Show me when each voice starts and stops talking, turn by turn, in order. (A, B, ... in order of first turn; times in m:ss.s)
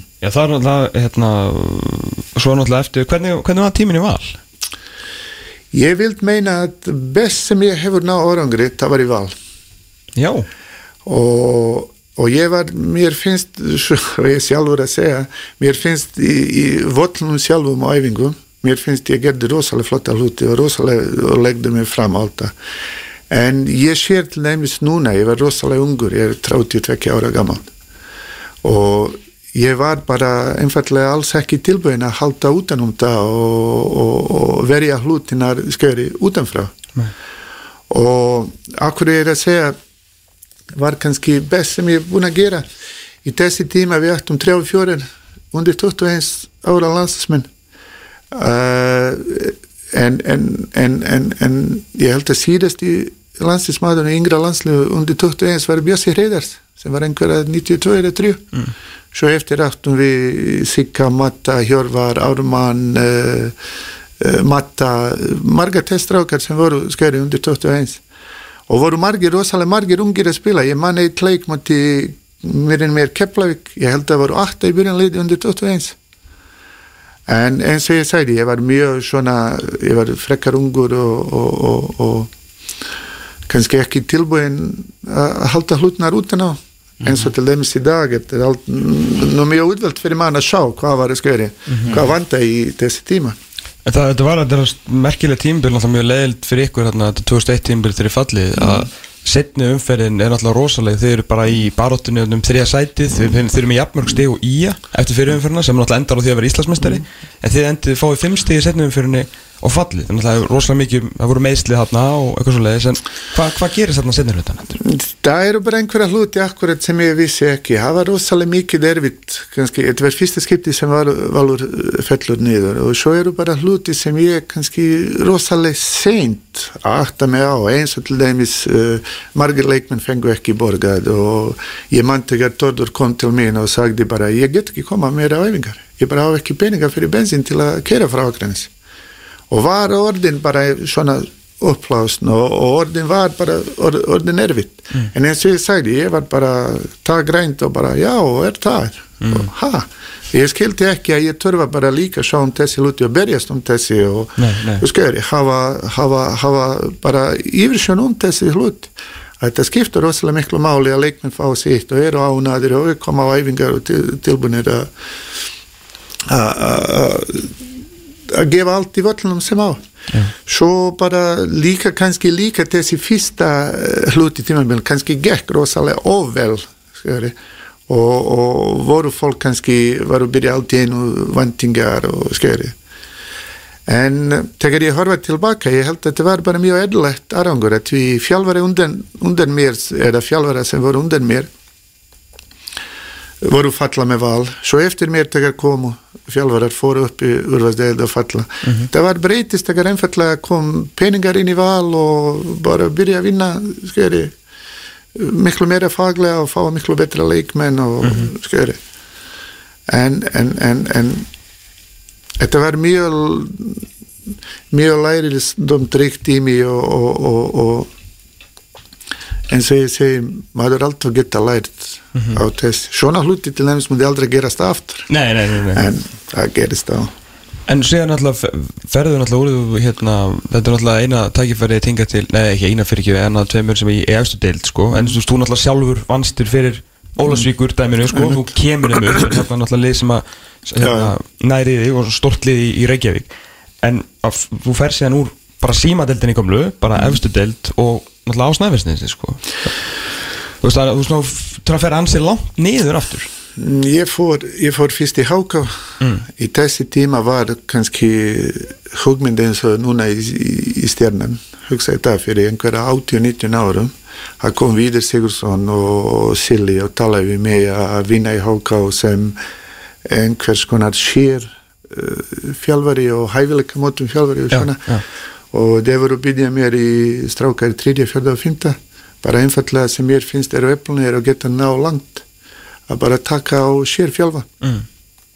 0:00.2-0:04.4 A
0:05.7-0:09.3 B
0:10.1-0:10.5 A
0:11.0-0:22.5 B
0:23.3-0:27.7 B
0:28.6-0:36.7 B
0:37.9-0:39.8 B
0:40.8-0:42.6 B
0:43.2-0:47.5 B
0:48.3-0:58.5 B
0:59.1-1:03.6 B
1:04.2-1:08.0 B
1:08.7-1:16.0 B
1:17.3-1:22.3 B
1:23.5-1:33.4 B
1:33.8-1:54.8 A
1:54.8-2:18.7 B
2:19.5-2:44.9 B
2:34.4-2:34.8 A
2:46.3-2:47.6 B
2:48.3-2:49.8 B
2:50.4-2:57.3 B
2:57.9-3:02.7 B
3:03.8-3:11.5 B
3:13.4-3:24.3 B
3:25.1-3:28.8 B
3:29.9-3:31.3 B
3:32.4-3:33.8 B
3:34.7-3:37.9 B
3:39.5-3:45.1 B
3:45.1-3:45.8 A
3:45.7-3:47.1 B
3:47.7-4:03.3 A
3:58.1-3:58.5 B
4:00.8-4:01.1 B
4:03.8-4:09.7 A
4:10.6-4:13.3 A
4:13.6-4:29.4 B
4:30.0-4:35.0 B
4:34.5-4:35.0 A
4:35.5-4:42.2 B
4:42.9-4:44.5 B